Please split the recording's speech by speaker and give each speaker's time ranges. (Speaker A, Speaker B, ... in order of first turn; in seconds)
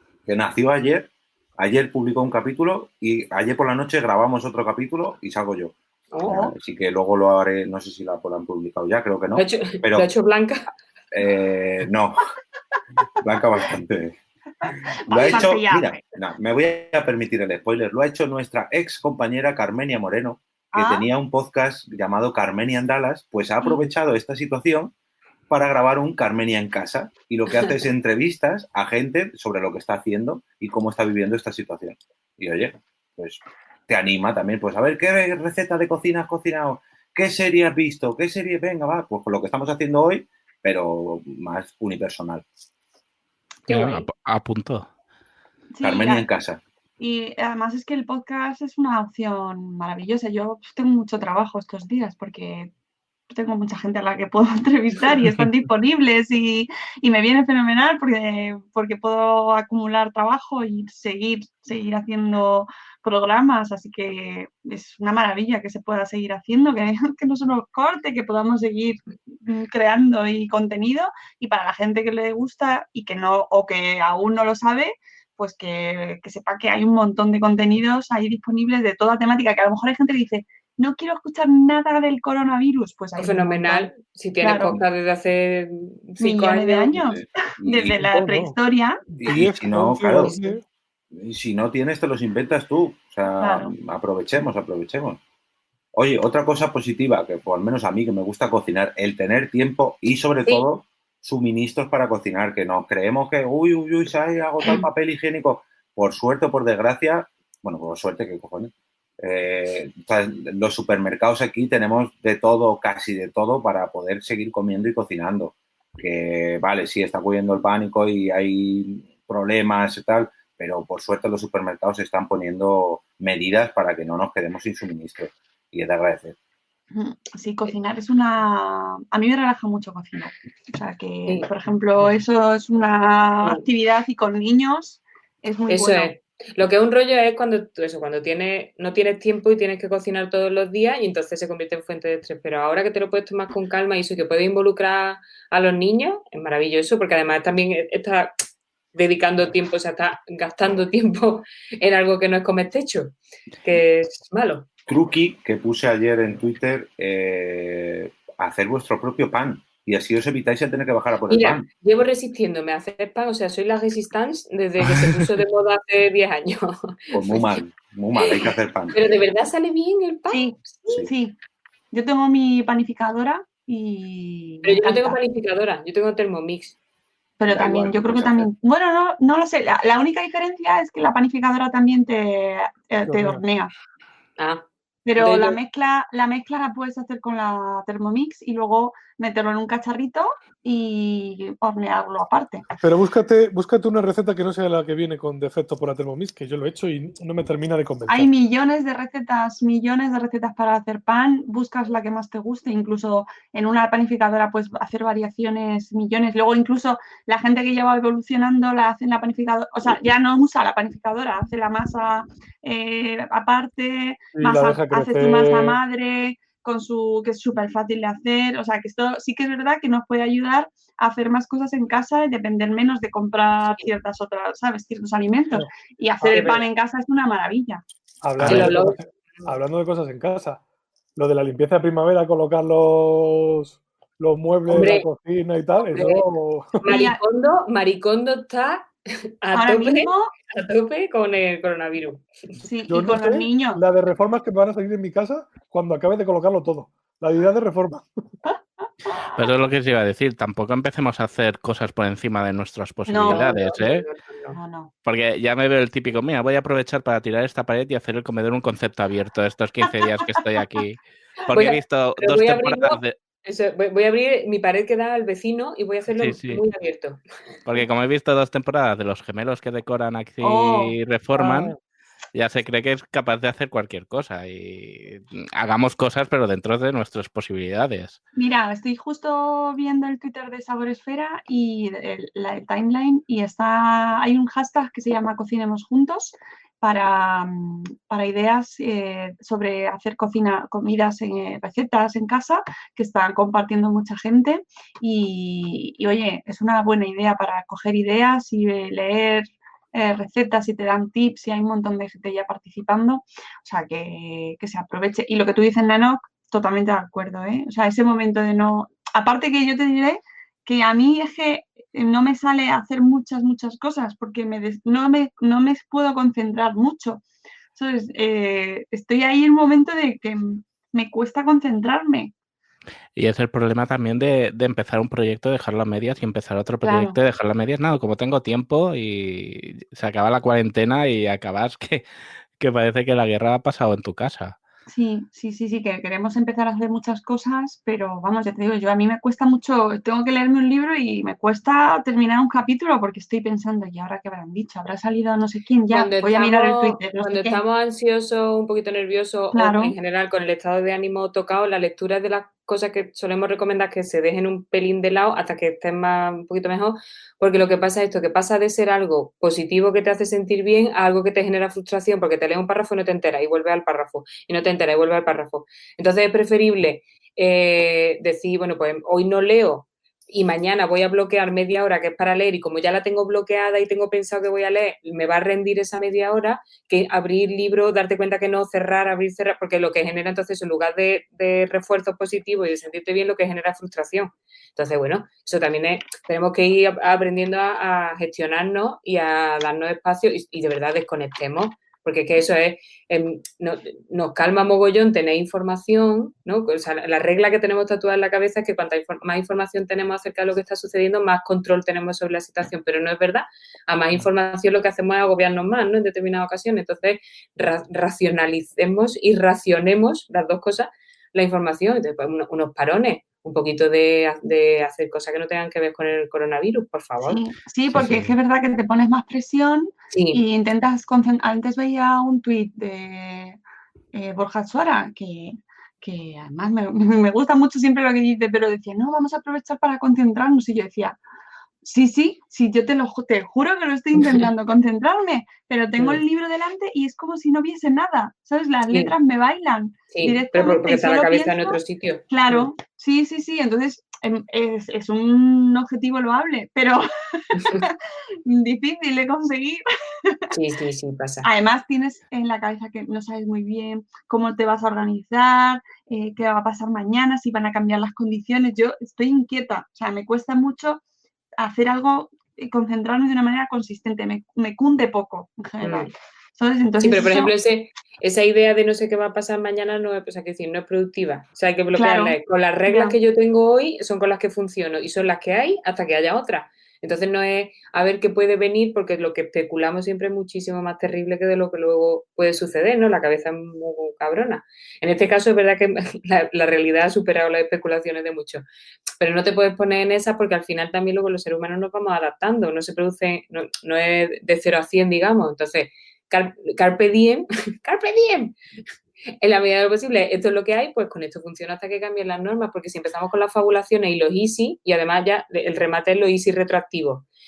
Speaker A: 0.2-10.1, 11.1-12.2, 13.2-14.2, 15.1-24.9, 25.5-42.5, 45.8-46.6, 86.9-88.0, 89.2-90.3, 91.1-95.2, 95.9-126.3, 154.9-161.7, 167.1-169.0, 177.4-178.5
Speaker B: 6.3-6.5, 15.1-16.0, 20.7-21.1, 45.7-46.3, 47.0-52.7, 53.3-84.8, 86.2-89.0, 93.4-93.7, 126.9-136.1, 170.3-171.4, 171.9-175.2, 177.4-183.7, 185.1-192.6, 198.1-227.8, 236.8-237.2, 239.5-240.3, 242.6-243.8, 253.1-253.5, 254.5-254.9, 270.4-270.9, 278.4-317.2, 317.7-322.3, 326.8-327.2, 334.9-347.6, 349.5-349.9, 417.2-423.6, 424.1-431.2, 431.8-450.4, 451.4-461.0, 461.6-467.5, 471.9-473.1
Speaker C: 9.3-10.7, 43.7-44.0, 83.2-87.0, 90.2-90.6, 135.7-148.4, 148.9-154.7, 161.3-167.6, 168.9-170.4, 174.6-176.7, 184.4-185.6, 226.3-226.7, 228.4-229.5, 234.7-235.1, 235.9-236.2, 236.8-238.9, 239.4-242.2, 253.3-254.6, 261.5-267.2, 345.9-417.4, 420.1-420.4, 440.1-442.7, 447.6-447.9, 450.5-451.5, 465.8-466.1, 467.0-488.6, 489.2-498.5, 499.4-507.2
Speaker D: 43.7-44.9, 228.4-228.7, 249.3-254.0, 255.0-263.1, 266.1-266.6, 267.7-271.7, 272.3-278.2, 323.1-332.0, 332.6-334.6, 417.9-418.3
Speaker E: 88.0-88.5, 89.1-90.6, 183.1-183.4, 192.8-198.3, 214.4-215.8, 228.2-230.6, 231.2-236.8, 242.9-248.1